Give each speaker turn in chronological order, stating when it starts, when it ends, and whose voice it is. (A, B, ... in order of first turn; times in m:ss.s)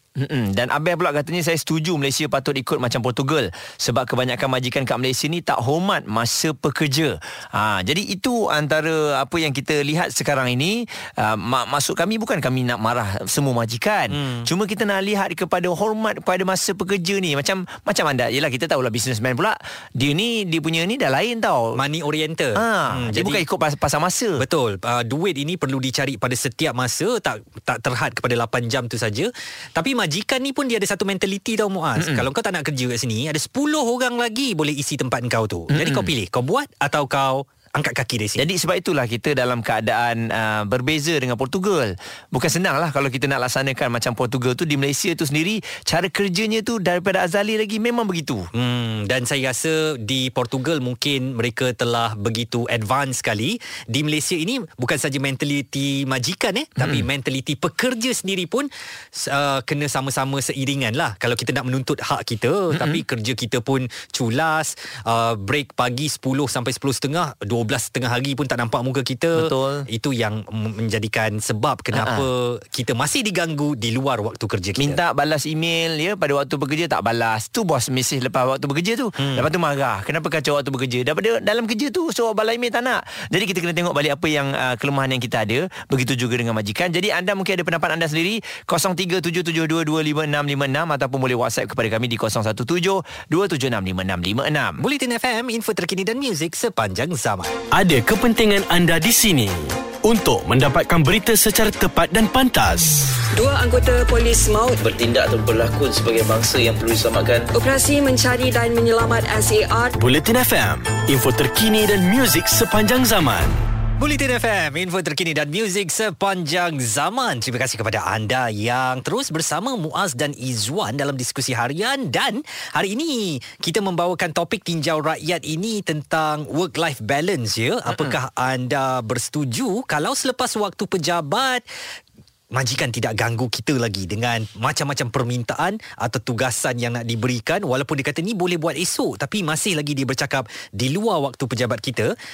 0:00.2-0:21.8 A
0:14.1-0:14.5 B
0:21.8-0:23.4 B
0:22.6-0:24.4 A
0:24.4-0:38.5 B
0:32.0-0:32.2 A
0:35.7-0:36.1 A
0:38.4-0:48.5 A
0:48.5-1:15.0 B
0:56.8-0:57.1 A
1:02.7-1:03.0 A
1:09.4-1:09.9 A
1:11.9-1:12.3 A
1:14.8-1:34.8 A
1:19.2-1:19.5 B
1:34.8-1:37.5 B
1:37.7-1:43.1 C
1:43.4-1:44.8 D
1:45.0-1:47.3 E
1:47.6-1:49.9 D
1:49.9-1:53.6 C
1:54.0-2:11.6 B
2:07.9-2:08.2 A
2:12.5-2:22.1 B